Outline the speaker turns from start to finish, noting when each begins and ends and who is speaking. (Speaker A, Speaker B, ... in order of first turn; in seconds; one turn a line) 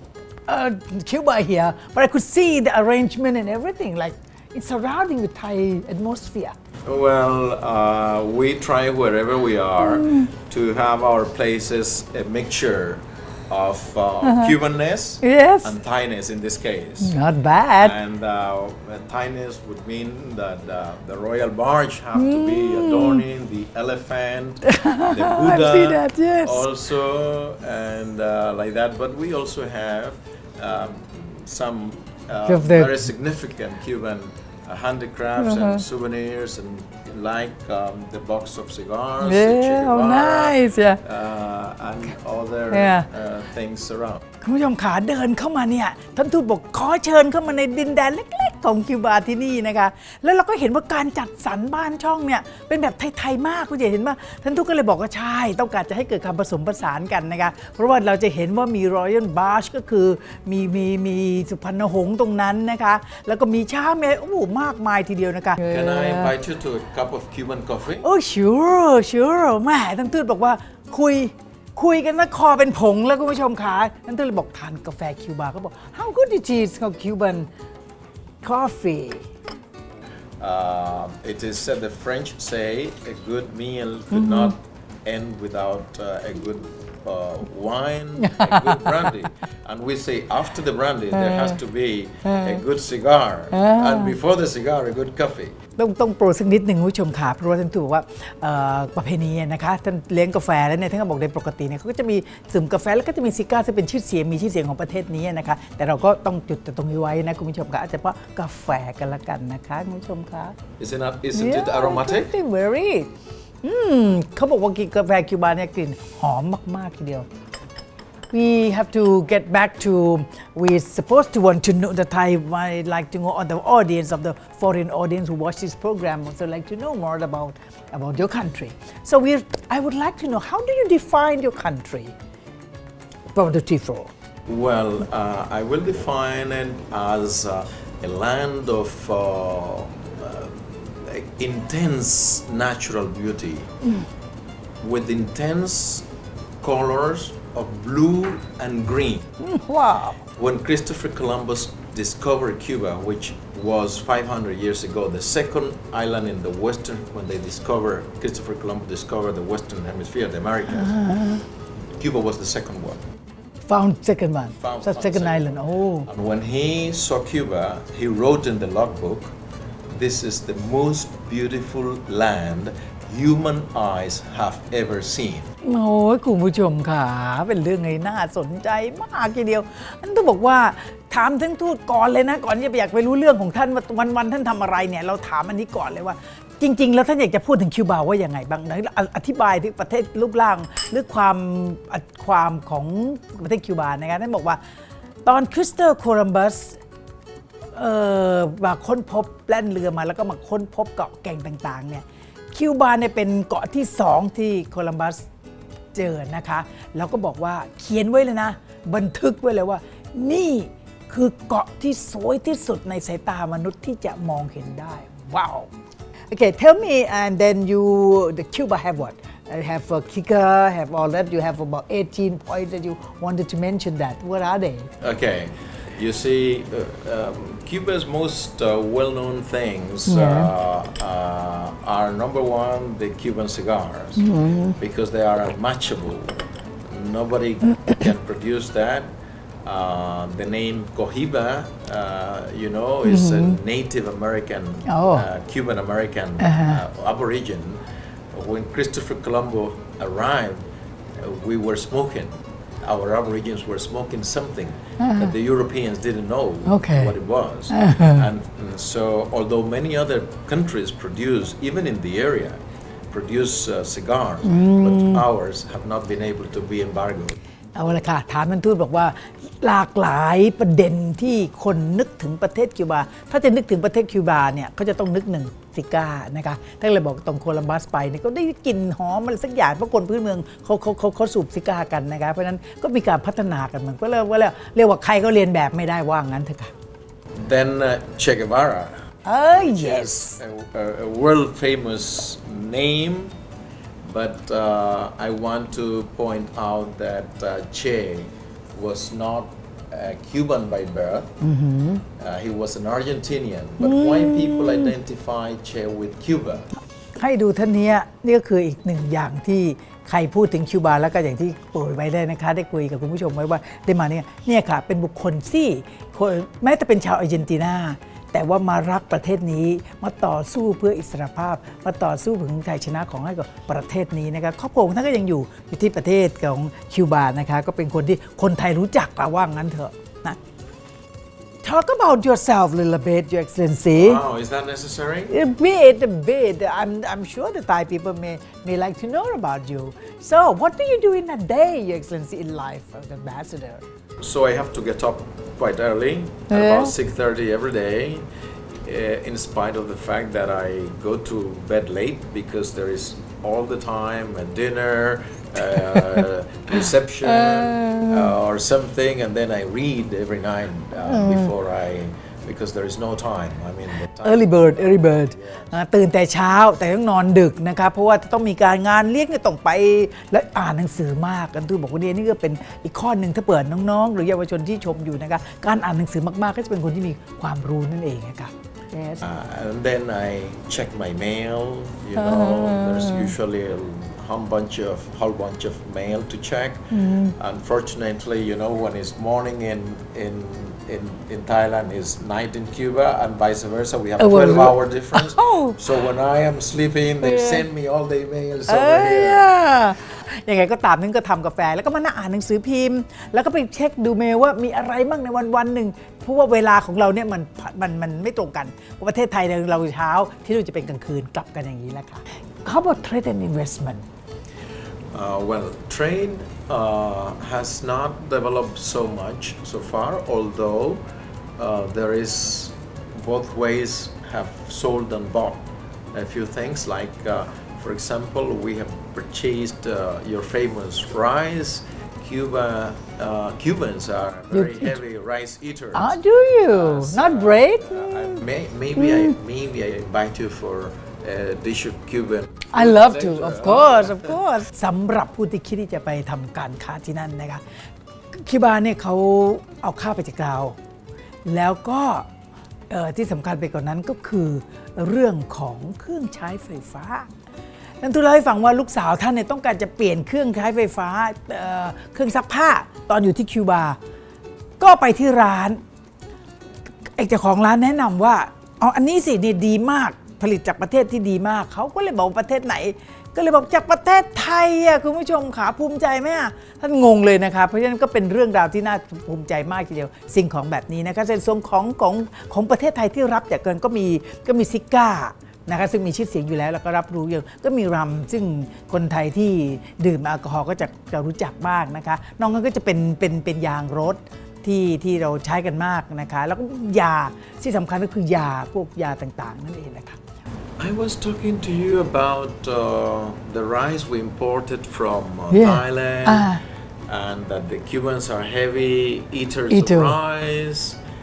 Speaker A: 0.5-6.5
Speaker B: 6.8-17.1
Speaker A: 9.8-10.3
Speaker A: 14.2-14.5
Speaker A: 15.2-15.7
Speaker A: 17.0-18.0
Speaker B: 17.8-44.2
Speaker A: 22.1-23.2
Speaker A: 24.7-26.6
Speaker A: 32.5-32.9
Speaker A: 35.4-35.8
Speaker A: 39.2-41.0
Speaker A: 42.7-43.0
Speaker A: 44.4-66.3
Speaker B: 65.6-68.0
Speaker A: 68.0-77.5
Speaker A: 78.4-79.3
Speaker B: 80.4-95.6
Speaker A: 84.1-84.5
Speaker A: 88.2-89.1
Speaker A: 91.1-91.5
Speaker A: 92.2-92.6
Speaker A: 93.5-94.1
Speaker A: 95.8-110.6
Speaker B: 110.8-112.3
Speaker A: 111.3-113.1
Speaker A: 113.6-117.3
Speaker A: 118.3-132.1
Speaker A: 133.3-134.1
Speaker B: 134.5-143.7
Speaker B: 144.8-146.1
Speaker B: 146.6-149.3
Speaker A: 149.4-150.2
Speaker B: 150.3-160.9
Speaker A: 160.7-161.4
Speaker B: 162.0-163.0
Speaker A: 163.7-166.1
Speaker B: 164.6-169.3
Speaker B: 169.9-175.5
Speaker A: 175.6-194.6
Speaker A: 195.2-196.8
Speaker A: 197.7-205.2
Speaker A: 205.9-215.7
Speaker A: 216.3-224.9
Speaker B: 225.0-250.6
Speaker A: 230.1-230.5
Speaker A: 234.2-234.8
Speaker A: 243.1-243.6
Speaker A: 244.9-245.2
Speaker A: 246.4-246.8
Speaker B: 251.2-267.4
Speaker A: 255.0-255.3
Speaker A: 256.6-257.1
Speaker A: 257.7-258.2
Speaker A: 264.4-265.2
Speaker A: 267.8-286.7
Speaker B: 287.3-293.3
Speaker A: 289.2-290.4
Speaker B: 294.0-301.4
Speaker A: 301.4-302.0
Speaker B: 302.2-306.7
Speaker A: 303.8-304.9
Speaker A: 307.2-330.4
Speaker A: 331.6-334.2
Speaker B: 333.9-335.3
Speaker A: 335.3-343.8
Speaker B: 344.2-348.2
Speaker A: 346.5-346.9
Speaker B: 348.8-365.7
Speaker A: 357.2-358.3
Speaker A: 361.1-361.5
Speaker A: 364.2-379.2
Speaker B: 379.2-399.4
Speaker A: 382.1-383.3
Speaker A: 386.9-387.4
Speaker A: 394.2-395.8
Speaker A: 397.2-397.6
Speaker A: 398.7-414.0
Speaker B: 415.1-421.0
Speaker B: 421.6-444.3
Speaker A: 434.5-435.0
Speaker A: 435.9-438.4
Speaker A: 438.9-439.3
Speaker A: 442.7-447.6
Speaker A: 448.3-450.8
Speaker A: 451.4-452.3
Speaker A: 452.9-457.3
Speaker A: 458.0-464.0
Speaker A: 464.8-465.8
Speaker A: 467.1-500.2
Speaker B: 500.8-511.0
Speaker A: 505.5-506.6
Speaker A: 509.7-510.1